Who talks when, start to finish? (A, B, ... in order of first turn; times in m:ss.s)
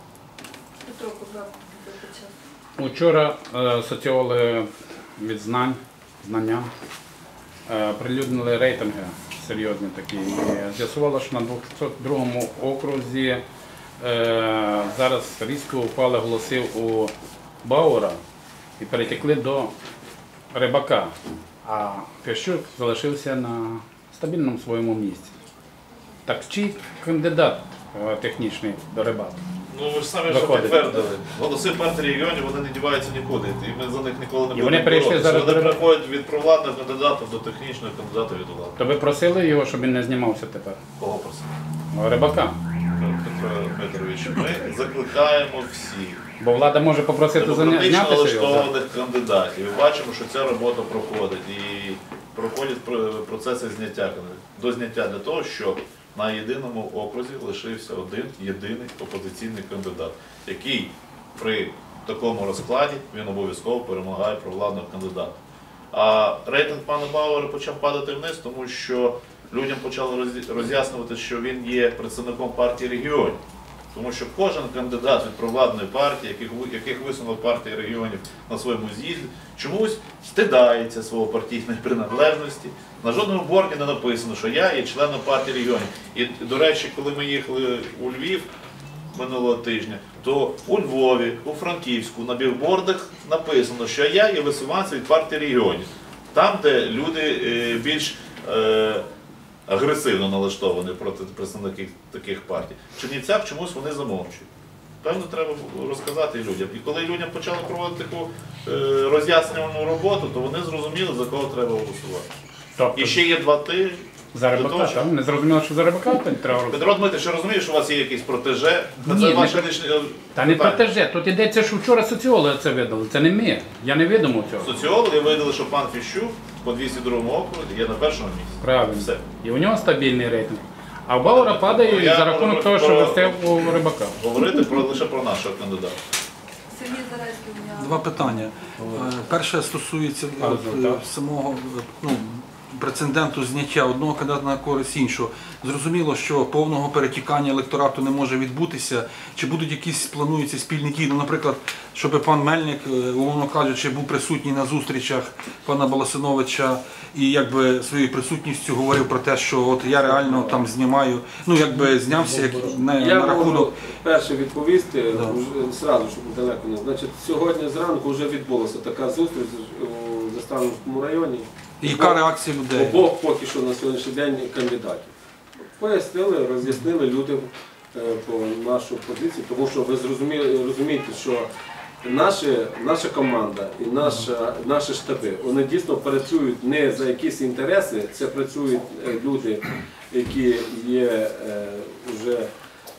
0:00.8-0:02.3 A
0:02.8-0:06.7 B
0:07.7-0:13.4 B
0:14.0-0:17.1 B
0:17.6-0:18.2 B
0:18.8-0:19.7 B
0:20.5-0:25.3 B
0:26.3-0:29.4 B
0:29.7-0:38.8 C
0:30.3-0:31.0 B
0:34.5-0:35.8 B
0:38.8-0:40.8 B
0:41.0-0:41.5 C
0:41.9-0:42.6 B
0:43.0-0:46.2 C
0:46.4-0:48.7 B
0:47.3-1:05.4 C
1:05.9-1:13.4 C
1:13.9-1:28.5 C
1:29.1-1:39.0 C
1:39.7-1:44.5 C
1:45.0-1:52.3 C
1:52.8-1:53.2 B
1:53.0-1:55.1 C
1:54.3-1:56.8 B
1:56.7-2:00.8 C
1:59.0-1:59.7 B
2:00.4-2:04.8 B
2:04.6-2:09.3 C
2:08.6-2:14.2 B
2:11.2-2:16.0 C
2:16.7-2:18.0 A
2:17.7-2:43.8 D
2:20.4-2:21.0 B
2:40.0-2:40.6 E
2:42.9-2:52.2 E
2:51.8-2:53.0 D
2:52.7-2:55.1 E
2:55.8-3:01.5 E
3:02.0-3:12.5 E